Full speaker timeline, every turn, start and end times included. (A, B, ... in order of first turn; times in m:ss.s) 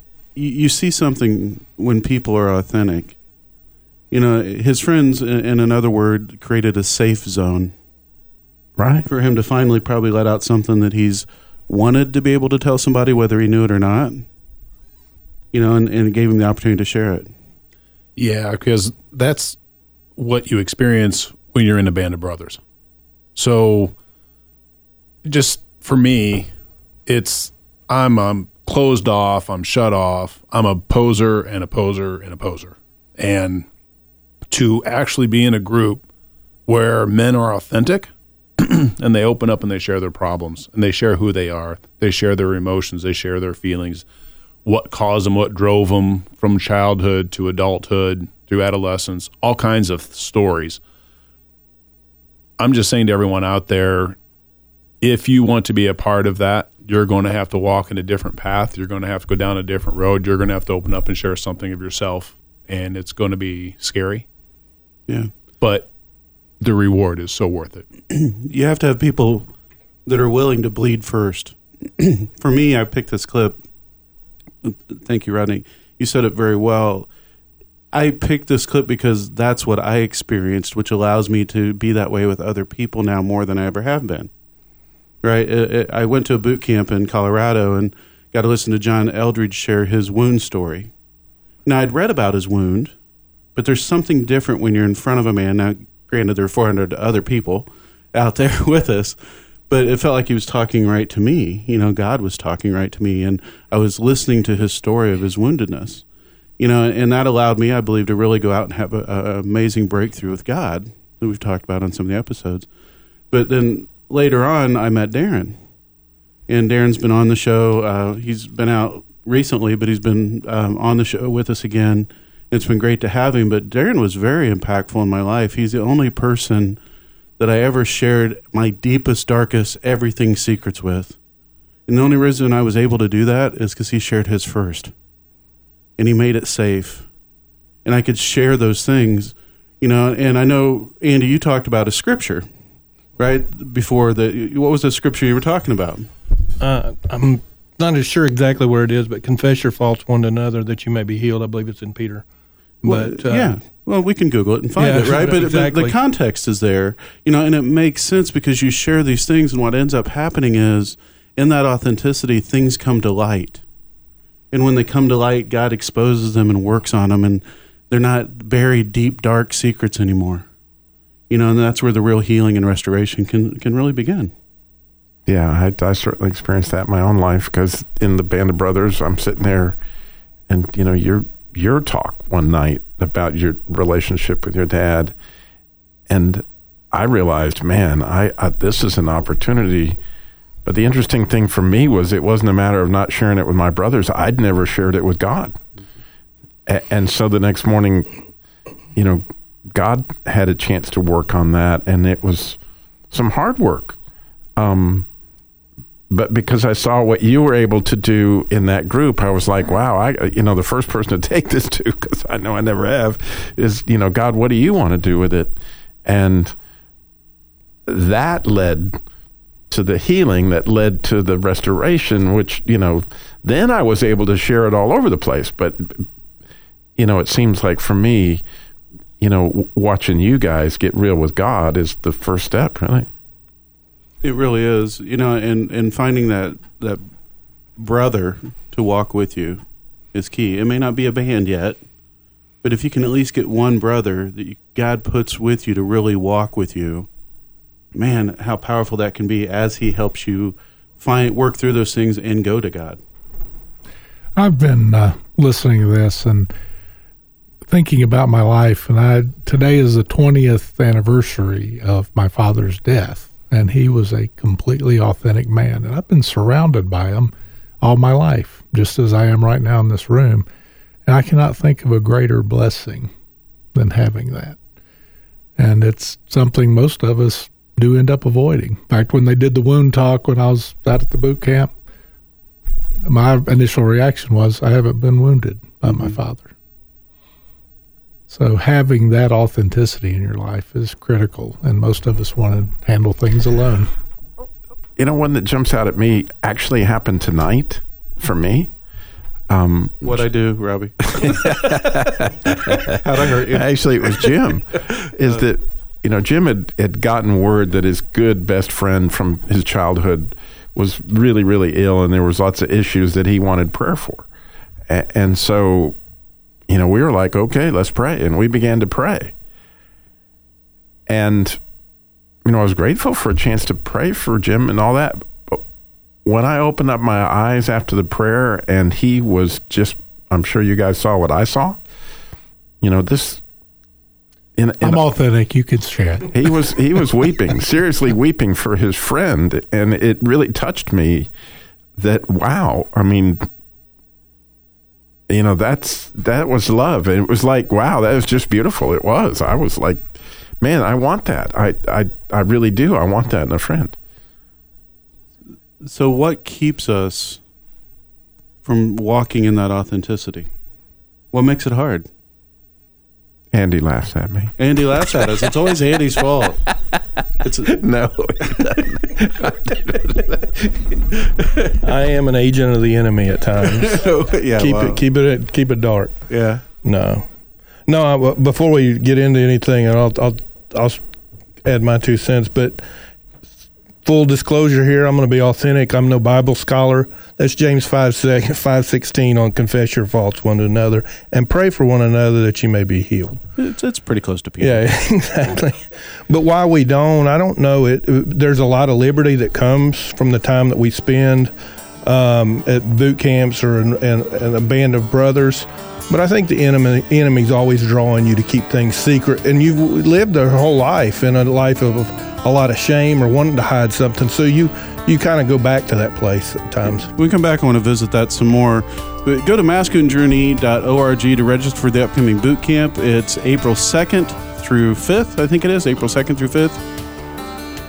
0:00.4-0:03.2 A
0:04.1-0:07.7 A
0:08.8-0:09.0 B
0:09.0-0:14.2 A
0:15.5-0:17.3 A
0:18.2-0:19.6 C
0:20.2-0:22.6 C
0:23.4-0:23.9 C
0:25.2-0:26.5 C
0:27.0-0:33.6 C
0:34.5-0:36.0 C
0:36.7-0:44.0 C
0:44.6-0:50.8 C
0:52.6-0:54.2 C
0:55.0-1:04.2 C
1:05.6-1:05.9 C
1:06.6-1:07.8 C
1:08.1-1:09.5 A
1:10.0-1:13.6 A
1:14.6-1:17.1 A
1:17.9-1:24.3 A
1:25.2-1:30.9 A
1:31.6-1:32.9 A
1:33.5-1:39.2 A
1:39.7-1:46.0 A
1:46.6-1:52.7 A
1:53.3-1:55.6 A
1:56.5-2:06.8 A
2:07.4-2:11.2 A
2:11.9-2:14.9 A
2:16.0-2:17.1 A
2:17.8-2:22.4 A
2:23.2-2:26.1 A
2:26.6-2:32.2 D
2:32.8-2:33.6 D
2:32.8-2:43.6 A
2:34.8-2:36.0 D
2:44.5-2:50.4 A
2:51.3-2:54.3 A
2:55.2-2:59.8 B
3:00.5-3:05.1 B
3:06.1-3:10.0 B
3:10.6-3:15.6 B
3:16.7-3:18.1 B
3:18.9-3:22.6 B
3:23.1-3:24.0 B
3:24.6-3:25.0 B
3:26.1-3:35.5 B
3:36.0-3:36.5 B
3:37.8-3:39.0 B
3:39.7-3:46.0 B
3:47.0-3:48.4 B
3:49.2-3:53.1 B
3:54.2-3:57.0 A
3:57.8-4:01.8 A
4:02.6-4:07.1 A
4:07.9-4:13.0 A
4:14.4-4:16.5 E
4:17.7-4:30.4 E
4:31.0-4:33.1 E
4:33.7-4:34.6 E
4:35.6-4:41.7 E
4:43.0-4:46.5 E
4:45.9-4:46.1 A
4:48.3-4:53.9 E
4:55.0-4:58.7 B
4:59.5-5:00.2 B
5:00.0-5:01.5 A
5:01.1-5:14.3 B
5:02.8-5:04.4 A
5:14.9-5:16.0 B
5:16.7-5:19.3 B
5:21.1-5:21.6 B
5:22.4-5:25.6 B
5:26.2-5:31.8 B
5:32.8-5:33.4 B
5:34.6-5:35.0 B
5:34.8-5:36.7 E
5:36.3-5:41.3 B
5:42.0-5:43.5 B
5:45.3-5:50.1 B
5:50.6-5:54.0 B
5:55.8-5:57.4 A
5:58.6-6:00.5 A
6:01.3-6:02.1 A
6:03.5-6:05.2 B
6:04.6-6:06.6 A
6:07.4-6:07.7 A
6:07.7-6:10.9 B
6:11.8-6:16.1 D
6:13.6-6:15.0 A
6:16.3-6:16.6 A
6:16.8-6:17.2 D
6:17.9-6:21.0 D
6:21.6-6:22.8 D
6:24.0-6:33.4 D
6:33.6-6:34.8 A
6:34.6-6:41.5 D
6:42.0-6:57.1 D
6:57.1-7:06.8 A